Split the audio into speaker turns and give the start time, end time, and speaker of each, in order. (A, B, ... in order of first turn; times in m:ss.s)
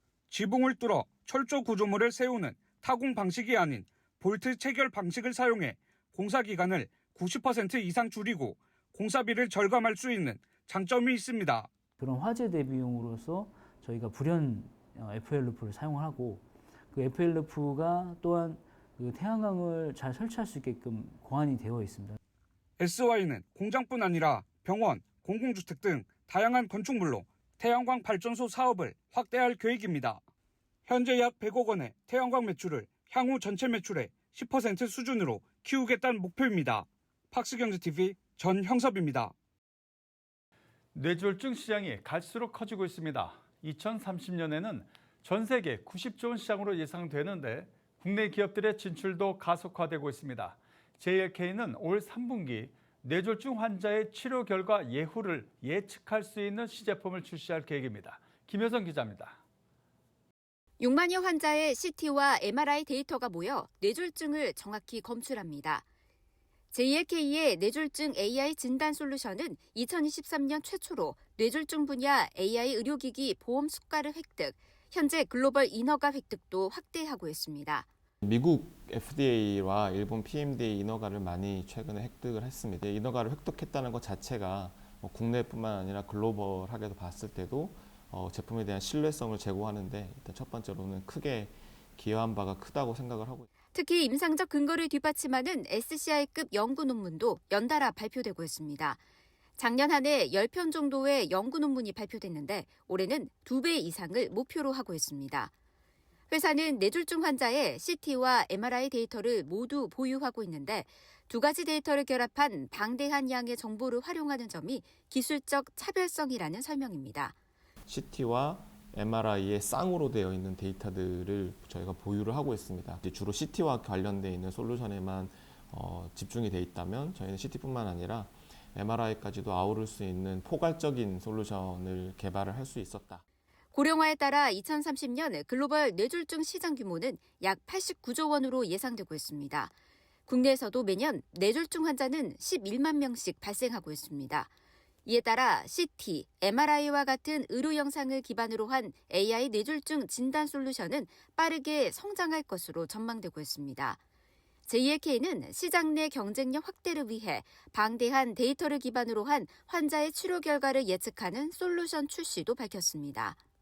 0:00.3-0:11.7 A
0:12.0-0:22.2 B
0:22.8-0:30.2 A
0:30.9-0:39.3 A
0:41.0-0:59.4 C
1:00.8-1:05.8 D
1:06.7-1:17.9 D
1:18.2-1:33.5 E
1:33.7-1:39.0 D
1:39.6-1:45.5 D
1:46.3-1:57.4 D
1:57.9-2:13.2 E
2:13.7-2:19.7 D
2:20.3-2:24.5 D
2:25.1-2:34.0 D
2:34.7-2:43.4 D